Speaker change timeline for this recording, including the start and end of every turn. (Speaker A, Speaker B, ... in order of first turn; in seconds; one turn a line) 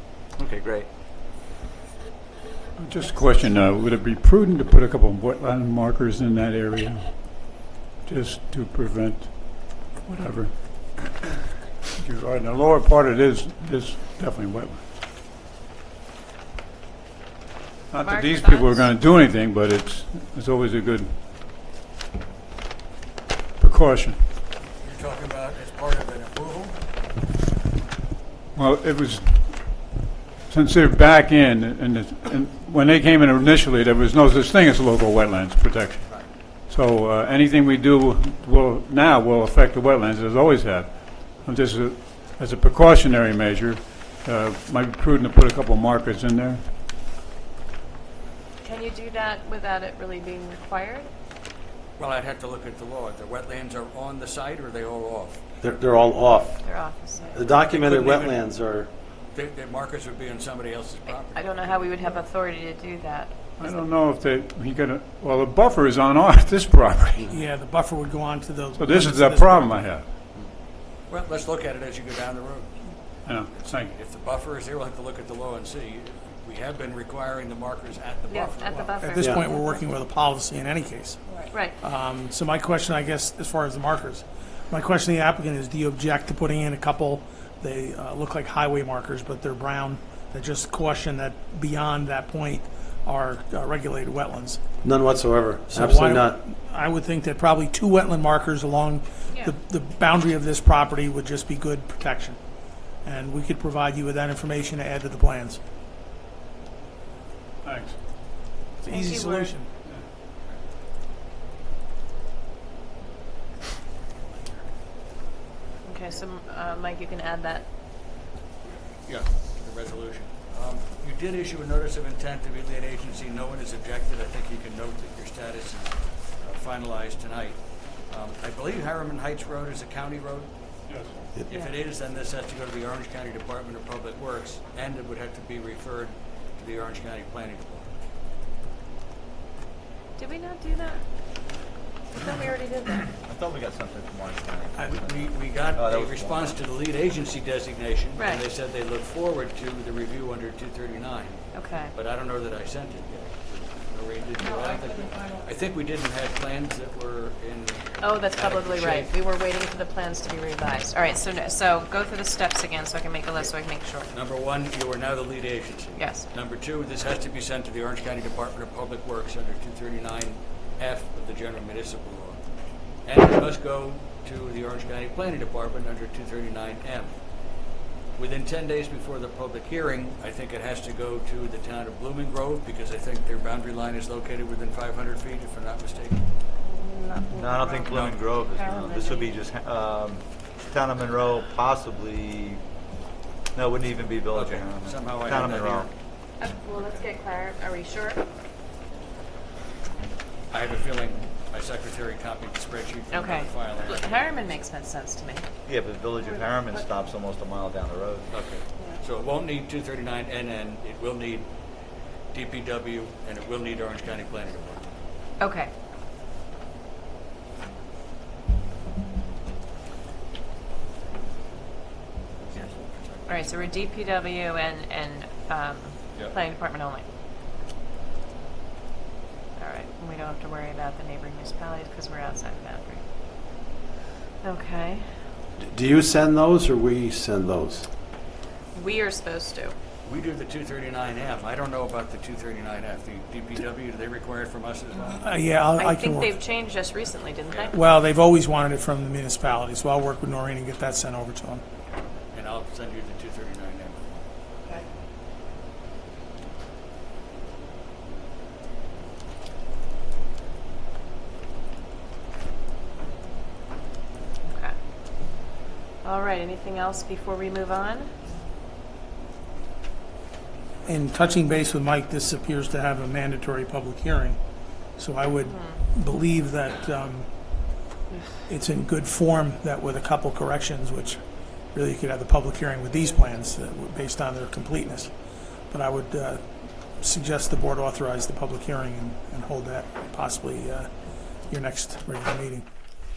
Speaker A: 0.4-0.9
Speaker B: 2.8-11.1
Speaker B: 11.9-14.8
Speaker B: 17.9-21.1
Speaker C: 18.0-18.9
Speaker B: 23.6-24.2
Speaker D: 24.8-26.8
Speaker B: 28.6-29.9
Speaker B: 30.5-36.1
Speaker B: 36.6-46.6
Speaker C: 48.6-51.1
Speaker D: 52.0-55.4
Speaker E: 55.6-56.6
Speaker C: 56.6-57.6
Speaker E: 57.3-58.9
Speaker D: 57.5-58.4
Speaker D: 59.3-62.2
Speaker C: 61.3-63.4
Speaker B: 63.6-67.3
Speaker F: 67.3-69.8
Speaker B: 68.8-70.1
Speaker D: 71.1-72.7
Speaker B: 73.3-73.9
Speaker D: 73.6-78.9
Speaker C: 78.3-79.8
Speaker F: 78.8-94.6
Speaker C: 81.5-81.8
Speaker E: 94.8-96.4
Speaker F: 95.7-102.4
Speaker F: 103.0-105.6
Speaker B: 107.6-108.0
Speaker F: 108.8-109.7
Speaker C: 108.9-109.6
Speaker C: 115.8-117.7
Speaker D: 118.7-127.6
Speaker D: 128.1-130.5
Speaker B: 130.9-131.2
Speaker D: 131.5-137.9
Speaker C: 131.5-131.8
Speaker C: 140.2-141.0
Speaker C: 142.1-143.1
Speaker A: 143.1-146.6
Speaker D: 144.8-151.4
Speaker C: 148.2-148.4
Speaker C: 151.5-151.9
Speaker D: 151.9-159.1
Speaker C: 158.0-164.1
Speaker D: 164.1-172.4
Speaker C: 166.0-166.3
Speaker D: 173.1-177.1
Speaker D: 178.2-186.2
Speaker C: 186.6-187.9
Speaker A: 187.3-192.6
Speaker D: 187.9-188.2
Speaker C: 188.5-189.3
Speaker A: 193.6-195.9
Speaker D: 194.3-195.9
Speaker C: 196.4-198.2
Speaker D: 196.7-197.1
Speaker D: 200.5-204.3
Speaker C: 203.1-205.4
Speaker A: 205.7-208.3
Speaker D: 208.3-211.5
Speaker D: 212.3-214.9
Speaker C: 215.4-215.7
Speaker D: 222.5-224.0
Speaker C: 223.3-227.1
Speaker C: 229.6-233.0
Speaker C: 234.4-235.0
Speaker E: 235.6-237.9
Speaker C: 238.7-239.8
Speaker D: 240.0-245.2
Speaker F: 245.1-246.4
Speaker C: 245.8-247.8
Speaker D: 247.5-247.7
Speaker F: 247.7-251.6
Speaker D: 252.3-254.2
Speaker C: 264.5-264.7
Speaker C: 266.0-268.1
Speaker F: 270.9-274.4
Speaker F: 275.0-277.3
Speaker C: 275.4-275.8
Speaker F: 278.5-281.2
Speaker F: 281.7-285.1
Speaker F: 285.7-286.4
Speaker F: 287.0-290.9
Speaker F: 291.5-292.7